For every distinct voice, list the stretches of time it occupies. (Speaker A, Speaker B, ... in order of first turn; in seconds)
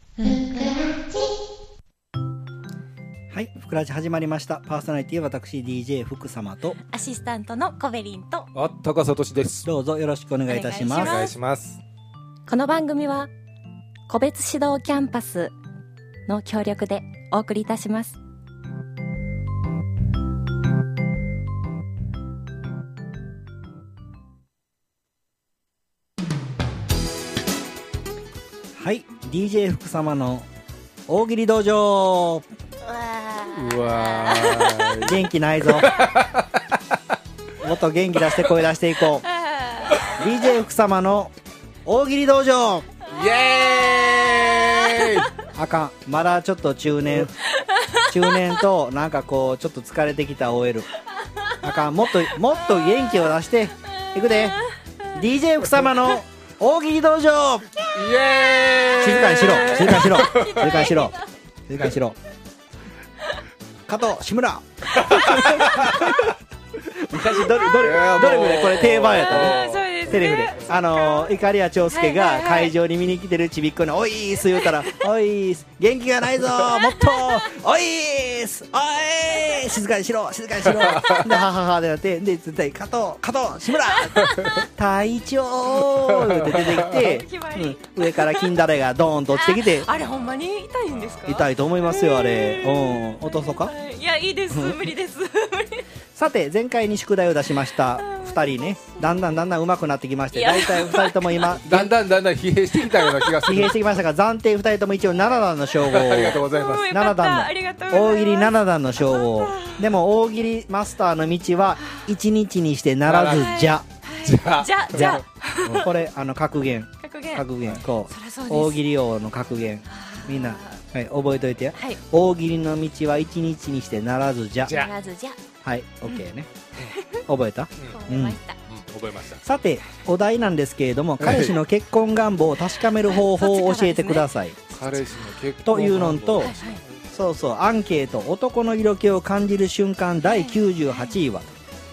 Speaker A: 0.2-1.3, 6.8-8.5, 10.5-11.3, 12.4-13.3, 14.1-15.5, 16.3-18.2, 32.8-34.9, 39.2-40.1, 43.2-45.1, 47.6-48.4, 51.2-53.3, 53.9-55.2, 57.8-61.3, 69.1-72.7, 74.5-75.0, 76.7-77.4, 84.0-84.7, 86.9-88.6, 89.3-95.8, 97.9-99.2, 100.3-101.6, 106.6-109.9, 111.8-112.1, 113.3-115.9, 117.0-117.5, 118.0-118.8, 119.8-120.8, 121.7-122.0, 124.7-125.4, 126.9-127.2, 127.9-128.6, 133.0-134.3, 136.4-136.8, 140.2-141.2
Speaker B: 3.3-6.8, 9.6-11.2, 28.8-30.5, 31.1-32.4, 35.0-35.9, 37.6-39.2, 40.1-41.3, 41.9-42.9, 45.5-47.3, 48.1-50.9, 51.6-54.6, 55.1-57.7, 59.0-61.1, 61.7-62.1, 63.9-66.3, 66.8-89.9, 91.2-93.7, 94.5-94.8, 96.1-101.9, 103.5-113.8, 114.9-115.2, 115.8-124.8, 125.6-126.5, 127.3-128.4, 129.4-134.6, 135.6-136.5, 137.1-141.5
Speaker C: 8.5-9.7, 10.9-11.8, 33.4-36.7, 43.1-45.3, 57.9-60.9, 64.9-66.3, 67.7-70.7, 80.7-81.4, 86.1-87.0, 90.0-90.3, 90.9-91.3, 101.6-103.8, 105.8-106.9, 113.0-113.6, 114.2-115.9, 124.6-124.9, 128.7-129.4, 131.2-131.6, 134.7-137.0